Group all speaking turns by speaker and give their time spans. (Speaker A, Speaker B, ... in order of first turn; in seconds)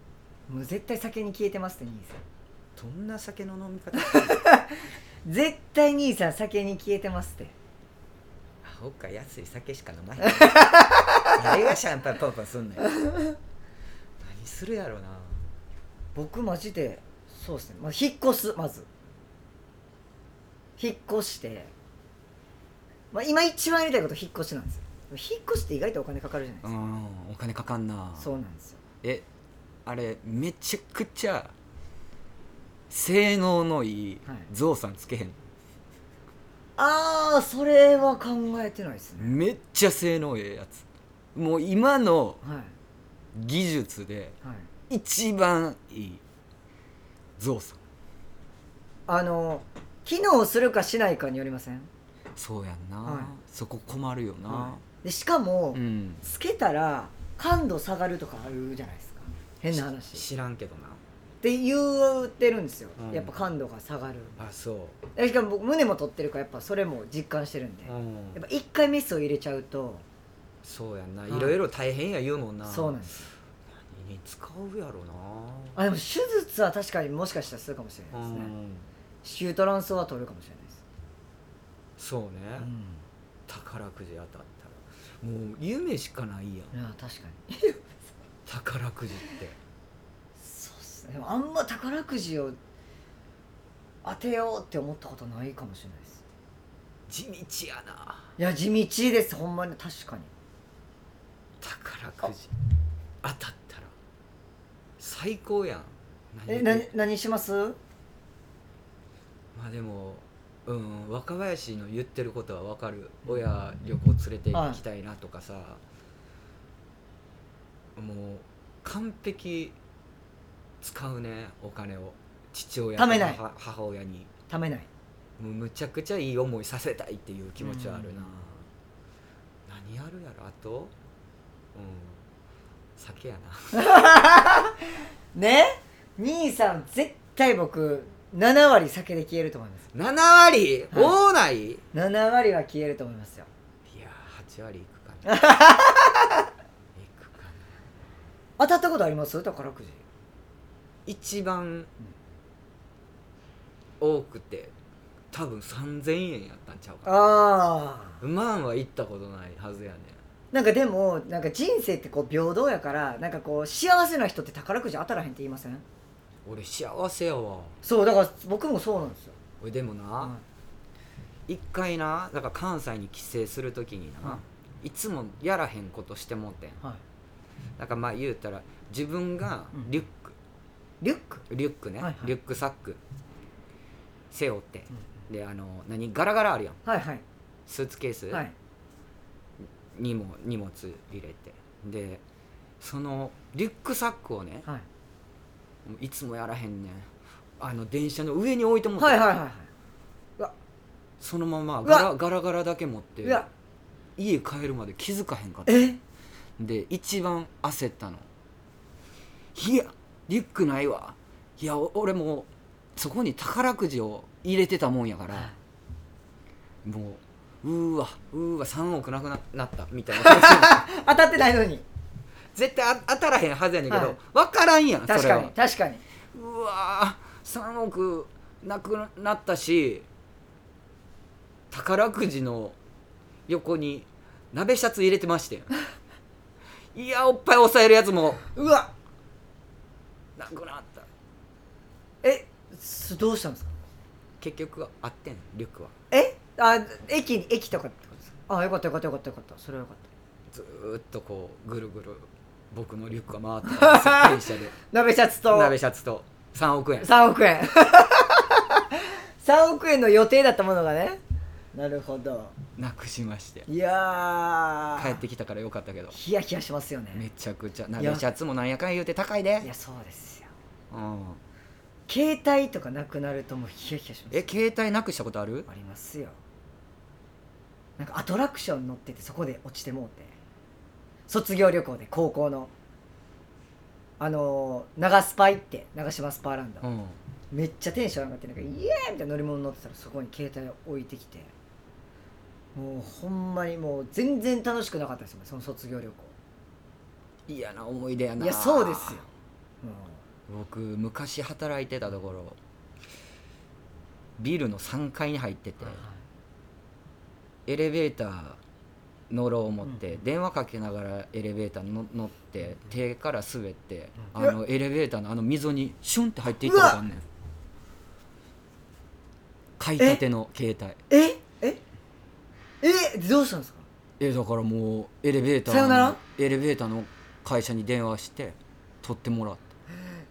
Speaker A: 0.5-2.2, 4.0-7.5, 10.2-11.3, 16.1-18.9, 20.8-21.7, 23.1-26.7, 28.2-28.8, 36.8-39.4, 42.4-42.7, 44.4-44.7, 49.1-51.9, 53.0-53.3, 54.5-60.2, 61.4-64.4, 65.2-70.0, 71.3-71.6, 72.6-73.2, 75.8-78.5, 79.2-80.8, 82.6-83.0, 86.7-87.9, 90.4-92.6, 94.0-96.2, 98.4-100.3, 106.5-107.8, 114.5-114.8, 123.0-123.4, 124.5-124.9, 127.6-128.5, 133.7-139.9, 140.9-141.2, 141.9-143.5, 145.2-146.5, 148.6-150.0, 157.1-158.2, 160.5-165.8, 167.8-169.4, 181.0-181.4, 182.0-182.3, 186.8-187.2, 199.0-199.7, 205.7-206.0, 220.1-221.8, 223.9-224.2, 225.1-226.0, 238.6-238.9, 242.2-243.8, 246.1-250.1, 253.7-254.3, 254.9-255.8, 257.0-258.8, 259.4-261.2, 261.7-262.5, 263.7-265.2, 266.1-267.2, 268.0-268.2, 269.6-270.5, 272.1-274.6, 275.7-276.4, 278.0-280.3, 281.3-282.7, 284.2-286.9, 287.5-291.5, 292.8-296.3, 298.4-299.2, 299.8-300.2, 305.8-306.1, 316.6-317.0, 321.1-321.8, 322.8-323.9, 325.7-326.2
Speaker B: 2.8-4.4, 8.6-10.7, 11.3-12.9, 14.2-15.4, 26.6-28.3, 29.9-31.5, 32.9-35.4, 39.2-40.8, 41.4-42.4, 43.4-44.4, 44.9-46.2, 47.4-47.8, 52.4-54.8, 55.7-56.2, 59.7-61.0, 63.0-63.4, 64.4-65.0, 67.9-68.4, 70.6-73.1, 73.8-75.8, 78.1-78.9, 82.0-82.7, 83.5-86.7, 88.5-89.6, 97.1-98.3, 101.6-102.5, 103.2-103.9, 105.0-106.9, 109.5-115.8, 118.0-119.8, 120.8-124.3, 125.4-128.7, 129.7-130.9, 131.7-132.2, 133.0-133.8, 139.9-141.8, 143.9-145.4, 146.9-147.7, 151.1-151.9, 154.0-154.7, 155.3-157.2, 158.2-160.2, 166.4-167.8, 169.6-170.4, 171.5-176.8, 177.8-180.3, 181.5-183.0, 184.3-186.8, 187.7-188.4, 189.9-192.2, 192.8-194.7, 195.9-199.3, 201.2-203.5, 204.2-205.9, 206.6-208.2, 209.6-215.5, 216.8-220.8, 222.5-225.5, 226.3-230.1, 231.7-232.8, 233.5-235.7, 236.9-238.4, 240.4-241.1, 244.4-245.9, 250.5-254.7, 255.5-257.1, 262.8-263.7, 265.0-266.1, 267.1-269.7, 270.9-271.4, 274.3-275.7, 286.8-287.2, 297.5-299.2, 300.5-302.6, 304.4-306.0, 307.7-308.6, 309.3-317.2, 319.8-321.0, 324.2-329.6